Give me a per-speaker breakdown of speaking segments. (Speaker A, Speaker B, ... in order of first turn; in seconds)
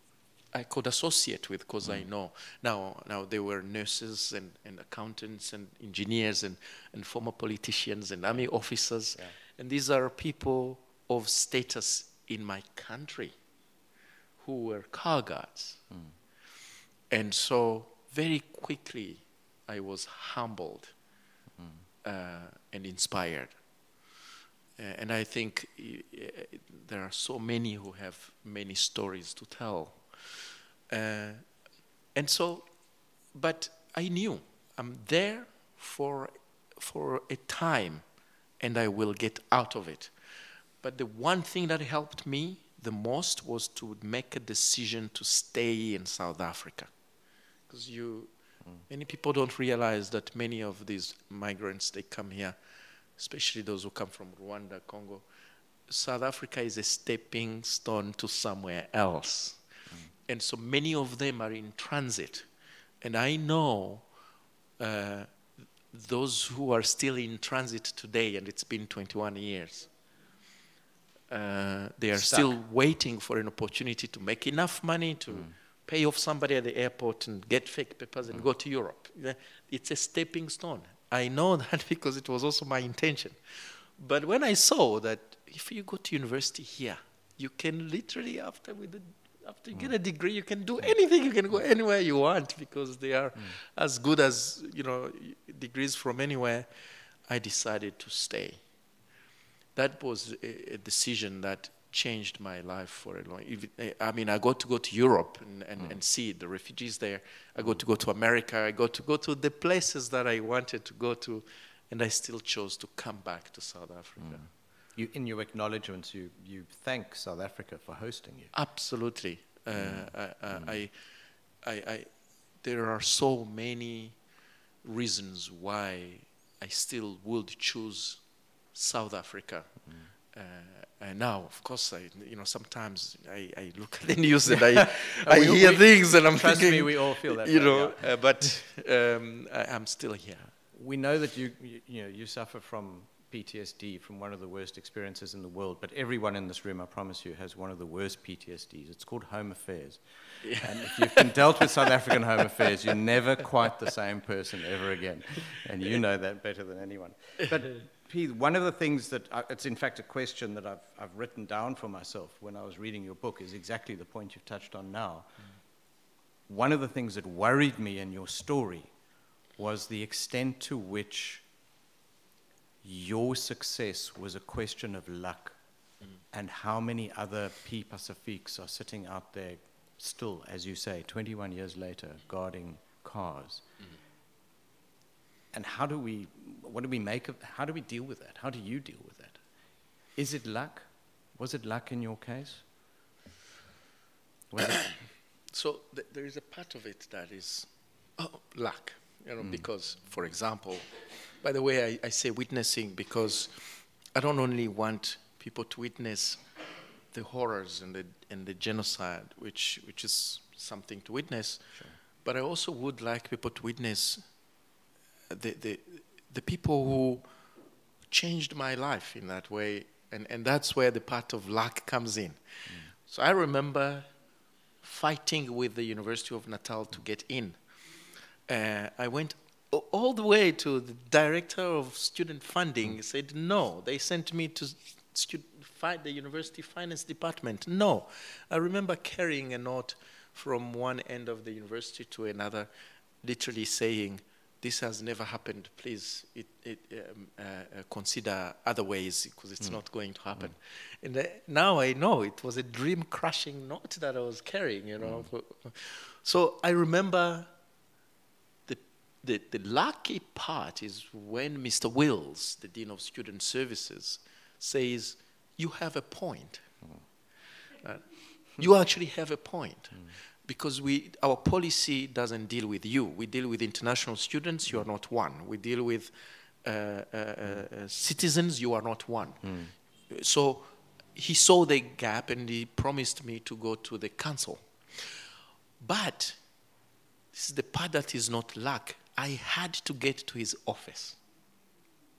Speaker A: 0.5-13.3, 14.4-15.9, 17.1-20.9, 22.0-23.6, 24.8-31.4, 32.1-32.7, 33.3-38.0, 38.6-40.1, 40.8-46.9, 47.7-48.3, 48.9-52.6, 53.1-55.2, 55.9-59.6, 60.2-62.5, 63.0-64.0, 64.8-69.9, 71.3-96.7, 97.2-98.6, 99.7-114.5, 118.5-120.9, 121.6-122.1, 122.6-124.2, 124.8-140.5, 150.4-151.4, 194.7-194.9, 195.5-200.8, 201.4-206.4, 207.1-214.2, 215.3-217.3, 218.1-224.1, 224.8-227.6, 228.5-242.7, 243.2-257.5, 258.7-266.7, 267.8-276.1, 276.6-279.5, 280.1-285.2, 285.8-286.4, 287.3-291.2
Speaker B: 15.9-16.1, 21.6-21.8, 72.1-72.5, 114.2-118.5, 119.8-120.7, 135.2-138.4, 140.7-165.3, 166.5-168.9, 169.6-171.4, 172.8-175.6, 176.3-183.6, 185.5-189.4, 190.1-192.6, 194.5-195.0, 199.4-199.7, 279.4-279.7